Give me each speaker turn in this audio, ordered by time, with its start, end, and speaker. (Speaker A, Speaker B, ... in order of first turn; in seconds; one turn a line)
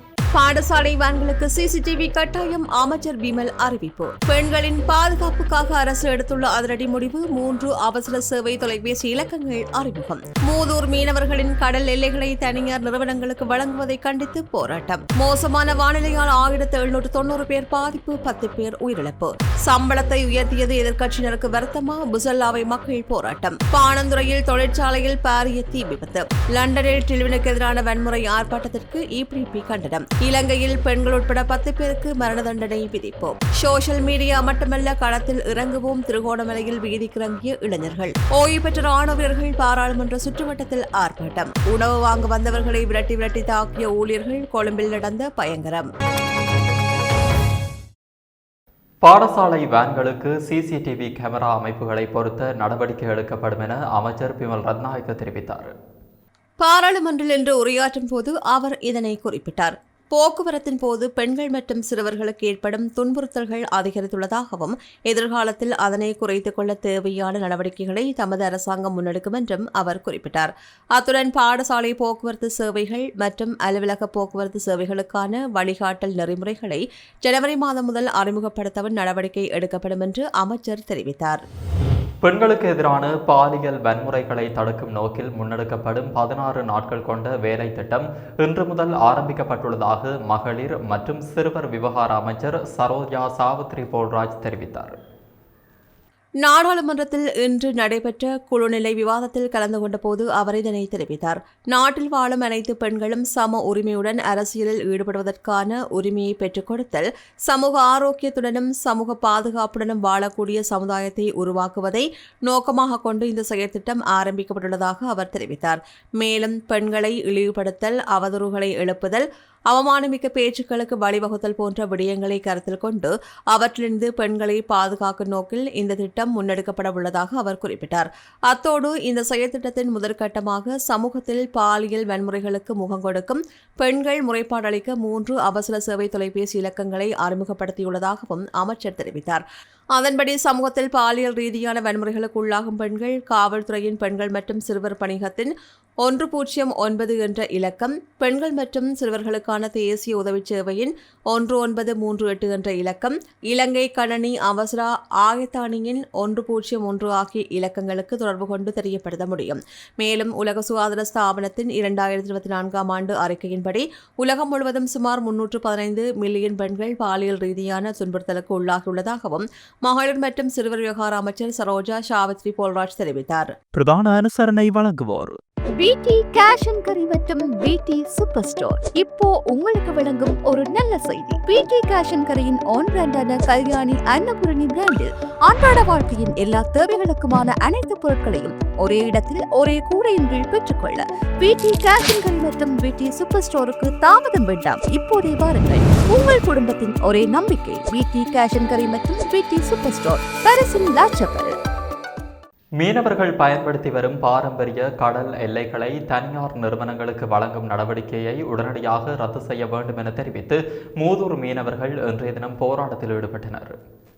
Speaker A: 0.3-45.9
Speaker B: 49.0-55.7
Speaker A: 56.6-81.4
Speaker B: 82.2-95.0
Speaker A: 96.4-139.4
Speaker A: 139.9-145.5
Speaker A: 146.0-173.6
Speaker B: 173.8-175.4
Speaker C: 175.8-201.5
Speaker A: 176.1-179.7
Speaker A: 180.6-184.0
Speaker A: 185.7-186.7
Speaker A: 187.6-189.1
Speaker A: 191.5-201.4
Speaker B: 202.8-213.8